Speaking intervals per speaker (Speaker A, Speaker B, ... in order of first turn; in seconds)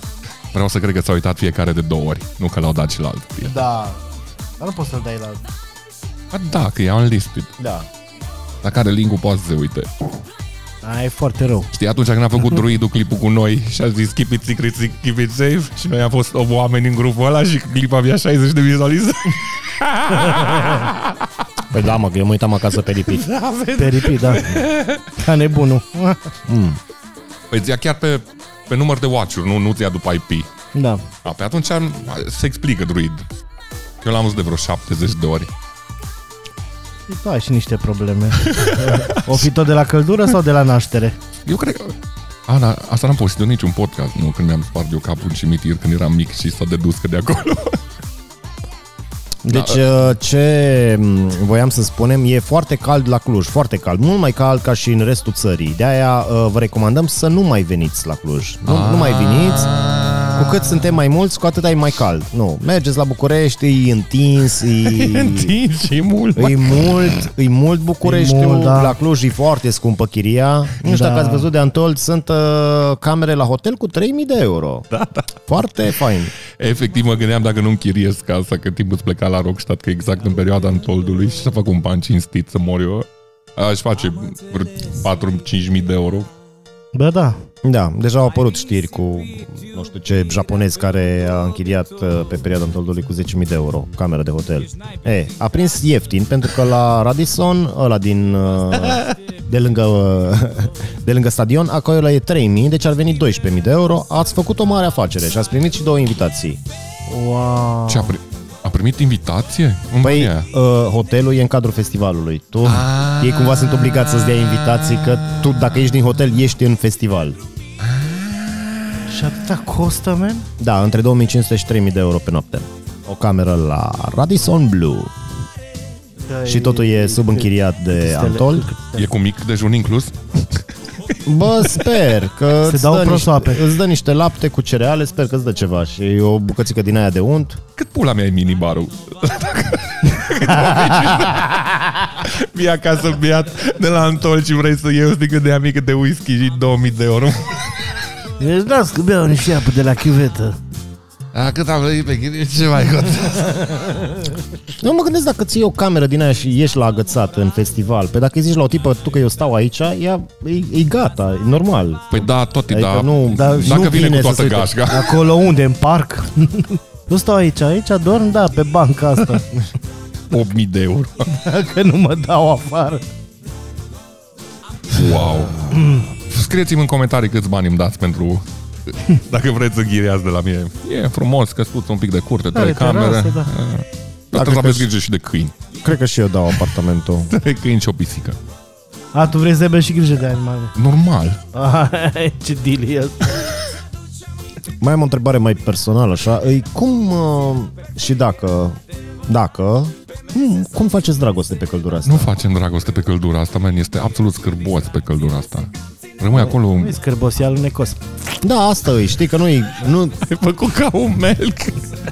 Speaker A: 0.5-3.5, 6.3-7.5, 8.6-9.9, 11.7-21.3, 23.1-25.2, 27.5-30.5, 31.2-33.3, 34.0-35.5, 38.4-39.5, 41.5-42.0, 42.5-47.8, 49.5-49.8, 58.6-60.7, 64.8-67.2, 74.9-75.4, 76.5-86.3, 107.9-110.5, 112.6-115.5, 117.8-119.2, 129.0-130.7, 137.8-148.0, 151.3-154.3, 162.1-165.2, 170.3-171.3, 174.9-185.6, 187.3-188.4, 190.8-191.4, 202.1-207.0, 210.2-211.9
Speaker B: 3.4-4.0, 4.6-5.4, 10.8-11.7, 23.8-26.4, 30.8-31.0, 37.1-41.2, 68.0-69.0, 70.8-71.5, 86.9-87.4, 107.1-108.1, 119.1-120.5, 126.3-129.1, 132.7-133.6, 140.4-141.3, 148.4-150.6, 163.4-163.8, 164.9-169.5, 171.3-173.0, 175.7-176.1, 182.5-183.5, 189.1-190.7, 191.5-193.5, 206.4-208.0
Speaker C: 7.6-7.9, 21.7-23.2, 26.5-26.8, 49.5-59.7, 60.4-65.5, 66.4-74.9, 75.5-76.3, 87.6-106.6, 110.0-117.4, 120.6-125.1, 126.5-128.7, 131.2-137.6, 154.8-164.8, 184.3-184.9, 185.8-187.3, 194.8-202.3, 208.4-210.2